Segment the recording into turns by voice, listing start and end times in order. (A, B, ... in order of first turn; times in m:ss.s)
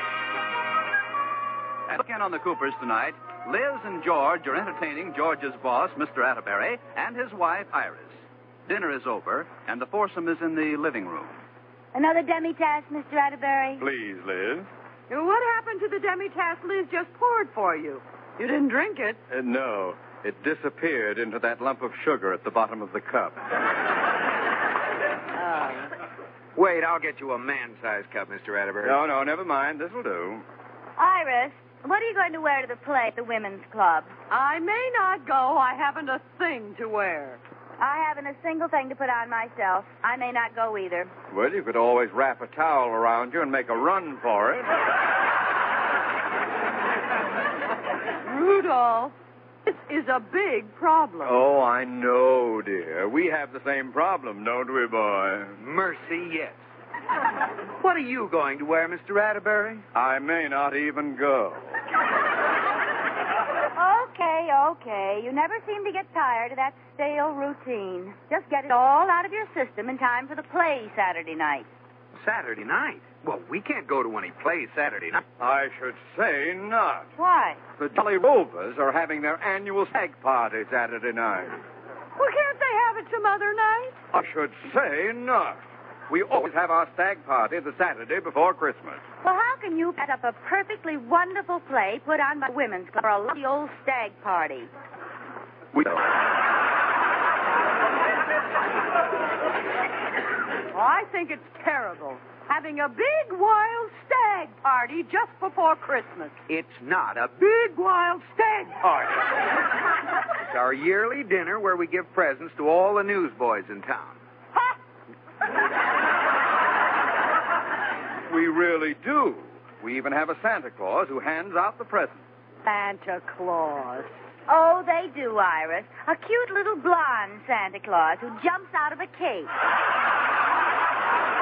0:01.9-0:11.3 A
0:11.9-0:13.8 B
0:13.8-0:14.7 C
0:15.1-0:19.2 D
0:19.3-0:23.4 C
0:25.4-0:25.9 D
0:26.6-0:29.0 E
0:28.8-0:30.4 C
0:31.0-0:34.1 B
0:34.3-0:37.4 D
0:37.8-0:41.1 B
0:41.3-0:44.7 C
0:48.2-0:49.1 D
0:49.6-0:51.4 D
0:51.2-0:55.6 C
0:55.6-0:56.6 E
0:57.8-0:59.8 E
0:59.9-1:01.7 C
1:03.7-1:11.7 B
1:12.2-1:15.2 E
1:15.4-1:17.1 C
1:17.2-1:17.6 B
1:17.8-1:21.6 C
1:22.2-1:24.0 D
1:24.1-1:29.0 C
1:29.2-1:34.7 B
1:35.7-1:36.0 C
1:40.7-1:46.3 D
1:46.5-1:48.8 E
1:48.8-1:49.2 C
1:50.4-1:54.2 E
1:58.3-2:02.2 C
2:02.6-2:04.1 D
2:04.5-2:09.5 B